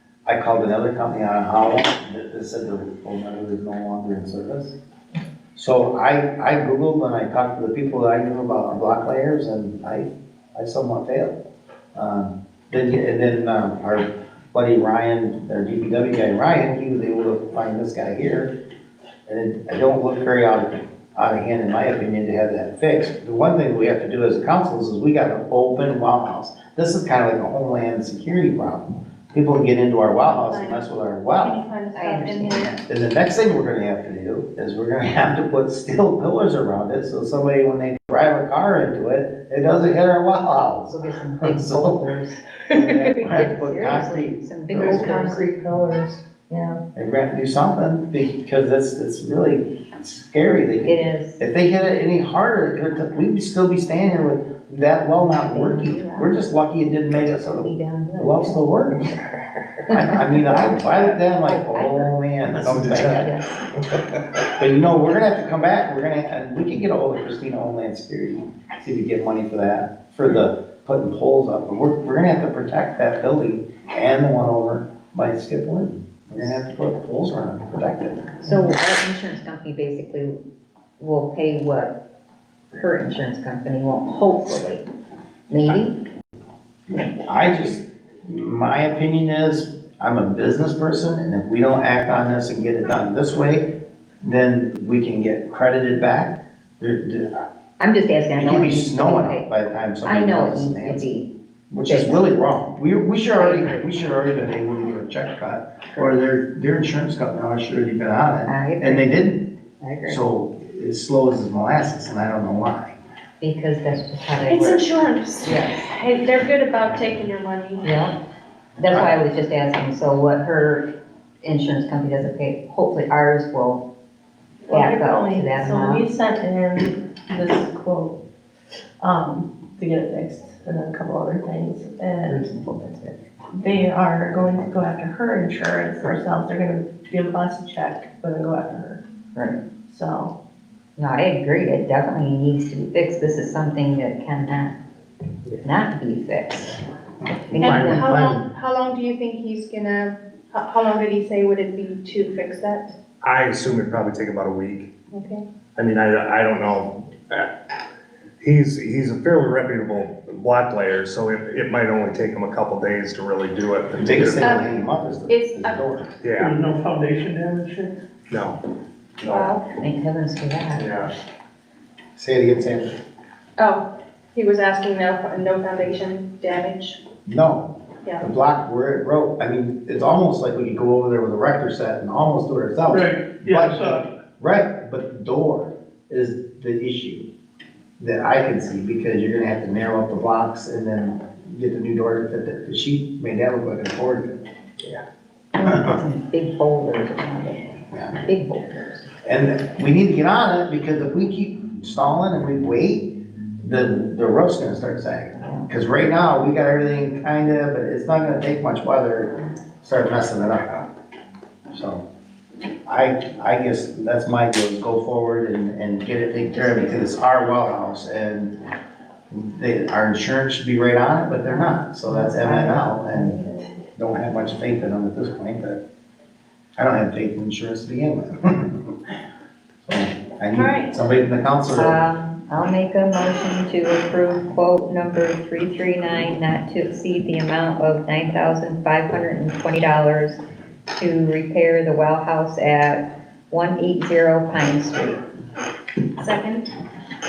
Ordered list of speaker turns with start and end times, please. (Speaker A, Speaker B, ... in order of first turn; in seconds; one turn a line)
Speaker A: 0.3-4.8
Speaker A: 5.5-11.4
Speaker A: 11.9-18.6
Speaker A: 19.3-31.6
Speaker B: 30.4-30.8
Speaker B: 31.4-32.8
Speaker C: 31.9-32.8
Speaker A: 32.8-42.0
Speaker C: 40.9-45.4
Speaker A: 42.7-45.3
Speaker B: 44.8-46.4
Speaker D: 45.5-45.8
Speaker D: 46.5-46.8
Speaker A: 47.0-59.0
Speaker C: 50.8-51.5
Speaker C: 55.4-56.4
Speaker C: 57.1-58.6
Speaker C: 59.9-62.1
Speaker A: 59.9-63.4
Speaker C: 63.0-63.6
Speaker A: 64.6-78.4
Speaker C: 78.4-80.4
Speaker C: 81.0-82.0
Speaker C: 82.7-84.9
Speaker C: 85.5-86.0
Speaker A: 86.9-93.7
Speaker A: 94.2-97.5
Speaker C: 97.8-99.5
Speaker A: 98.3-101.1
Speaker C: 100.0-101.3
Speaker A: 101.7-109.5
Speaker C: 101.9-102.2
Speaker C: 103.3-103.9
Speaker C: 108.5-109.2
Speaker C: 109.8-110.2
Speaker A: 110.1-113.0
Speaker C: 113.4-114.8
Speaker B: 114.5-117.9
Speaker C: 115.4-115.9
Speaker C: 117.8-118.2
Speaker C: 118.8-120.9
Speaker A: 118.9-119.2
Speaker C: 121.4-123.9
Speaker D: 124.7-128.2
Speaker C: 124.7-126.1
Speaker D: 129.0-132.5
Speaker C: 132.3-133.2
Speaker D: 133.6-139.0
Speaker C: 139.3-139.6
Speaker D: 139.9-140.3
Speaker C: 141.0-144.8
Speaker C: 145.6-146.8
Speaker C: 147.5-148.2
Speaker A: 147.5-148.4
Speaker B: 147.6-152.9
Speaker E: 153.2-154.9
Speaker B: 155.1-155.4
Speaker E: 155.8-157.5
Speaker E: 158.4-164.6
Speaker A: 164.0-166.1
Speaker B: 164.4-164.7
Speaker B: 165.3-165.8
Speaker E: 166.2-166.6
Speaker F: 166.4-168.0
Speaker E: 168.3-168.6
Speaker E: 169.2-169.6
Speaker C: 169.2-170.9
Speaker E: 170.8-171.1
Speaker A: 172.2-173.0
Speaker B: 173.6-177.0
Speaker A: 177.3-187.3
Speaker F: 182.9-184.1
Speaker A: 188.0-194.4
Speaker C: 195.6-199.1
Speaker A: 195.7-196.0
Speaker A: 197.9-198.2
Speaker A: 199.2-210.8
Speaker A: 211.7-212.1
Speaker A: 212.9-218.6
Speaker A: 219.3-223.4
Speaker C: 221.5-223.5
Speaker A: 224.0-225.8
Speaker A: 226.8-229.0
Speaker A: 229.9-232.0
Speaker B: 230.5-230.9
Speaker C: 231.7-240.4
Speaker C: 240.9-245.2
Speaker B: 246.2-246.7